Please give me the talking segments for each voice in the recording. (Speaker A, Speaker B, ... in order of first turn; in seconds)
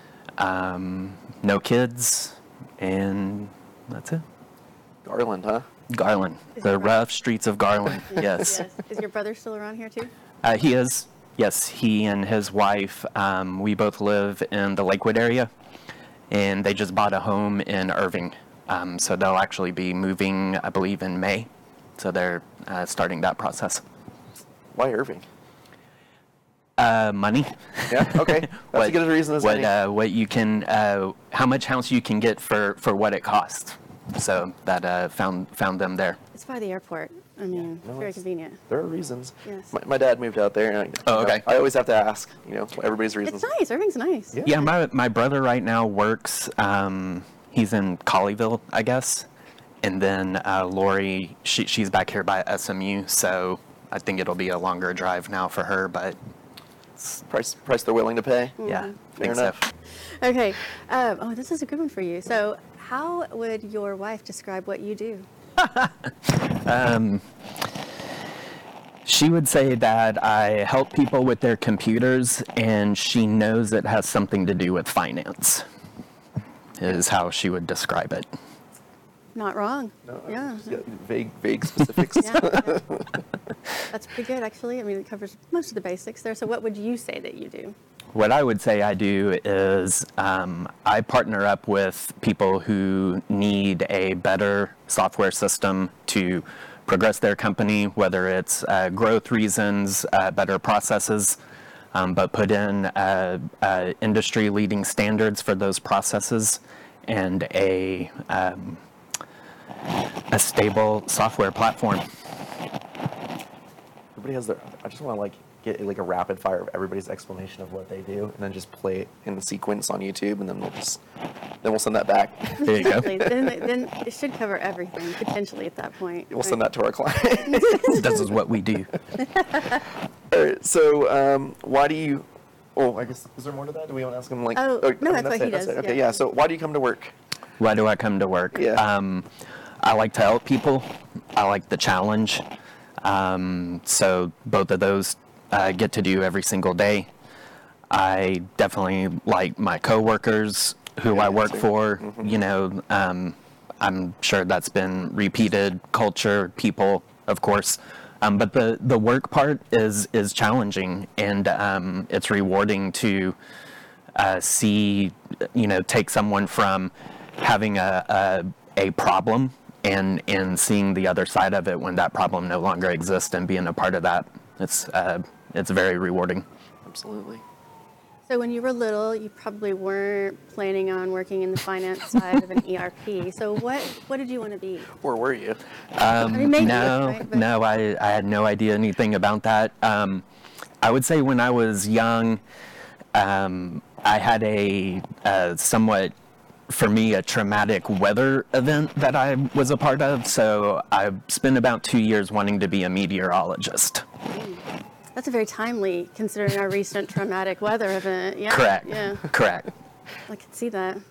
Speaker A: 0.4-4.2, 5.9-8.6, 10.4-15.5, 16.3-23.8, 26.8-36.2, 41.0-41.4, 44.4-49.3, 49.8-56.2, 58.6-59.6, 65.6-67.2, 69.0-75.6, 76.8-78.2, 88.1-101.4, 101.9-108.8, 110.3-112.0, 122.7-123.2, 127.9-128.9, 137.6-139.3, 139.8-142.4, 143.0-147.1, 147.9-163.3, 164.2-176.4, 185.9-190.2, 190.8-192.4, 193.1-196.1, 196.7-204.0, 208.5-209.7
Speaker B: 5.0-5.7, 24.7-25.2, 27.9-29.7, 37.6-43.5, 44.3-44.6, 57.3-58.6, 59.2-59.6, 80.0-83.2, 114.2-121.0, 121.6-123.5, 126.3-128.0, 130.3-132.2, 132.8-137.1, 138.5-138.8, 151.1-152.2, 176.8-177.4, 184.9-185.6
Speaker C: 6.5-6.9, 8.1-10.1, 36.3-38.6, 39.5-39.7, 43.2-44.4, 58.6-59.1, 60.0-65.2, 79.3-80.8, 82.2-82.8, 83.9-87.8, 122.6-126.6, 127.5-128.1, 134.5-136.1, 178.3-184.9, 186.2-187.4, 204.3-204.6, 205.1-209.3, 210.3-211.0